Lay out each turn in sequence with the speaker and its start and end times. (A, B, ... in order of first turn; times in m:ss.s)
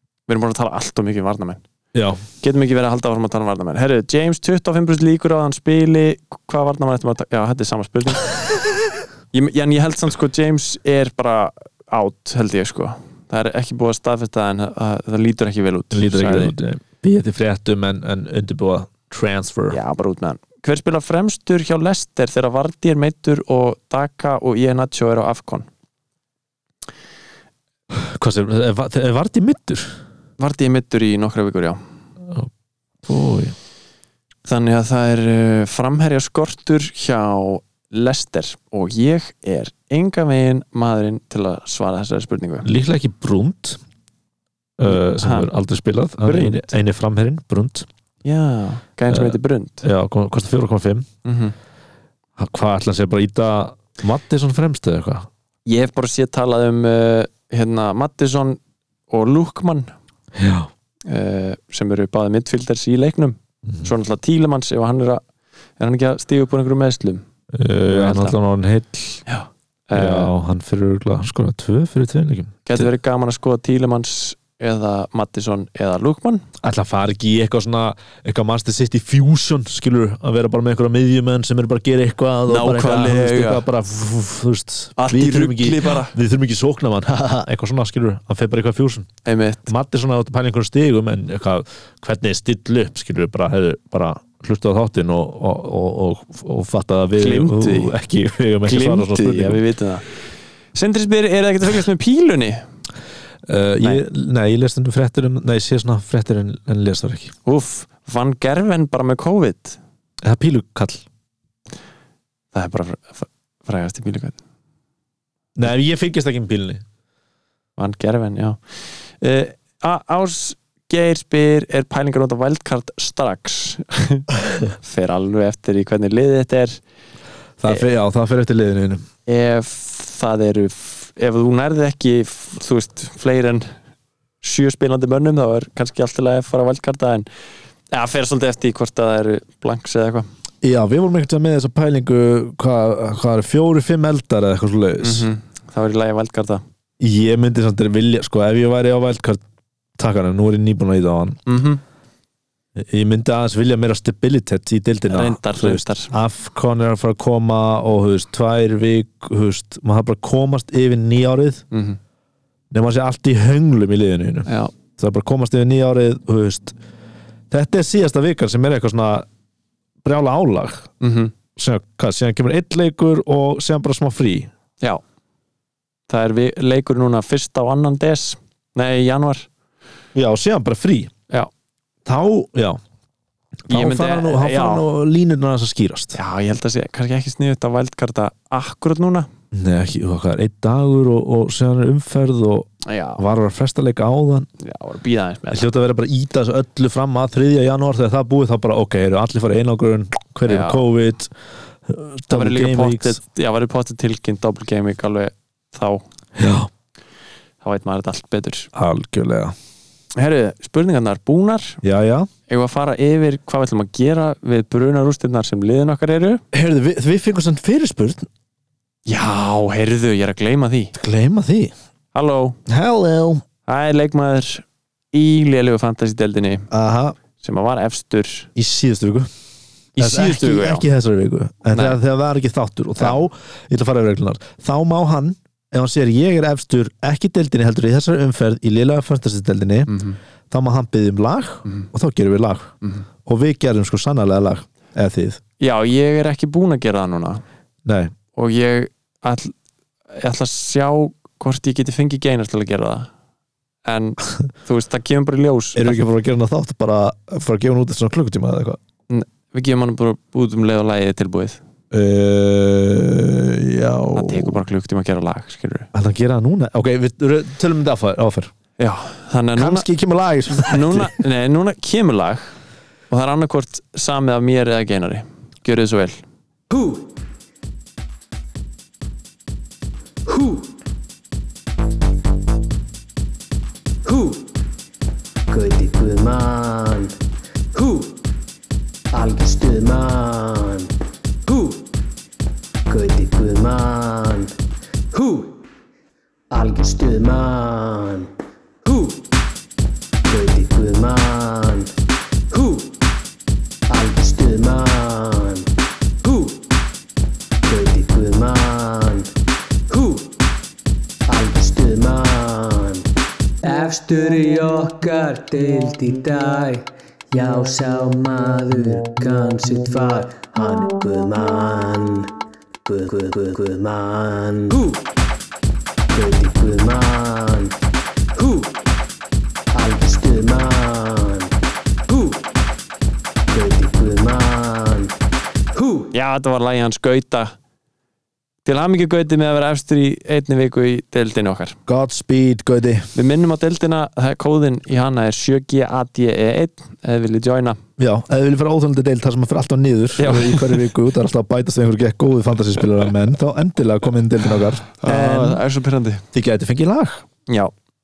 0:00.3-0:01.6 A
0:01.9-0:02.2 B
0:02.4-0:08.3 A
0:09.3-0:16.5 A
0:15.9-0:19.8 B
0:19.7-0:25.7 A
0:27.9-0:30.0 B
0:30.4-0:31.8 A
0:33.0-0:33.5 B
0:34.4-0:42.7 A
0:42.6-0:43.8 B
0:44.8-0:47.9 B
0:44.9-0:45.5 A
0:46.2-0:46.7 A
0:48.2-0:49.8 A
0:49.1-0:51.1 B
0:51.2-0:51.5 A
0:52.4-0:55.3 B
0:55.6-0:58.6 A
0:59.1-0:59.9 A
1:00.3-1:00.7 B
1:01.1-1:05.2 A
1:03.6-1:03.9 B
1:05.8-1:07.2 A
1:07.5-1:09.2 B
1:07.9-1:08.4 A
1:09.3-1:10.3 A
1:09.9-1:12.9 B
1:12.6-1:16.4 A
1:16.6-1:29.1 B
1:22.5-1:23.6 A
1:25.0-1:26.1 A
1:29.2-1:29.7 A
1:29.7-1:39.6 B
1:37.2-1:37.9 A
1:38.6-1:40.0 A
1:40.7-1:42.6 A
1:43.4-1:47.3 B
1:47.4-1:49.8 A
1:50.2-1:51.0 B
1:52.5-1:54.4 A
1:55.6-1:56.8 B
1:57.8-2:06.8 A
2:07.6-2:09.0 B
2:09.2-2:13.7 A
2:14.4-2:17.3 A
2:17.9-2:20.3 A
2:20.6-2:25.3 B
2:25.0-2:26.6 A
2:27.0-2:29.4 B
2:30.0-2:31.4 B
2:31.5-2:31.8 A
2:32.8-2:41.6 B
2:35.1-2:36.1 A
2:41.7-2:42.0 A
2:42.7-2:46.7 B
2:44.4-2:44.7 A
2:47.5-2:49.2 B
2:50.0-2:50.9 B
2:51.0-2:51.3 A
2:51.6-2:54.5 B
2:56.1-2:59.5 A
3:00.1-3:01.1 B
3:02.0-3:02.8 B
3:03.7-3:06.2 B
3:03.7-3:04.8 A
3:06.1-3:09.3 A
3:09.5-3:14.5 B
3:12.8-3:13.2 A
3:14.6-3:15.7 A
3:15.5-3:21.3 B
3:20.4-3:20.8 A
3:21.8-3:23.2 B
3:22.3-3:26.0 A
3:26.4-3:26.7 B
3:27.6-3:28.7 A
3:28.7-3:29.5 B
3:30.2-3:31.8 A
3:31.8-3:32.3 B
3:32.5-3:36.4 A
3:36.5-3:38.3 B
3:39.0-3:40.9 A
3:40.9-3:41.7 B
3:42.1-3:42.6 A
3:42.7-3:43.4 B
3:43.6-3:46.7 A
3:46.7-3:47.2 B
3:47.4-3:48.5 A
3:48.5-3:49.3 B
3:50.0-3:50.8 A
3:50.0-3:59.9 B
3:51.7-3:52.0 A
3:59.9-4:00.2 A
4:00.5-4:02.7 B
4:03.2-4:05.4 B
4:05.6-4:07.4 A
4:07.8-4:08.1 B
4:08.3-4:09.5 A
4:10.1-4:13.1 A
4:13.8-4:16.0 A
4:15.8-4:18.8 B
4:19.1-4:21.6 A
4:21.9-4:24.6 B
4:24.1-4:25.9 A
4:25.9-4:28.5 B
4:28.8-4:29.8 A
4:29.6-4:31.1 B
4:30.5-4:32.5 A
4:33.1-4:36.2 A
4:45.5-4:47.1 C
4:47.7-4:48.1 C
4:49.1-4:50.9 C
4:51.5-4:51.8 C
4:52.9-4:54.5 C
4:55.1-4:55.6 C
4:56.5-4:58.3 C
4:58.9-4:59.1 C
5:00.3-5:01.9 C
5:02.5-5:02.8 C
5:03.9-5:05.7 C
5:06.2-5:06.6 C
5:07.6-5:09.3 C
5:09.9-5:10.3 C
5:11.3-5:13.0 C
5:13.6-5:22.3 C
5:22.8-5:25.0 C
5:26.1-5:27.7 C
5:29.7-5:31.5 C
5:33.5-5:35.1 C
5:36.1-5:37.5 A
5:38.6-5:41.8 A
5:41.9-5:43.1 B
5:43.1-5:47.8 A
5:48.0-5:55.6 B
5:50.2-5:50.8 A
5:55.0-5:56.2 A
5:56.3-5:57.2 B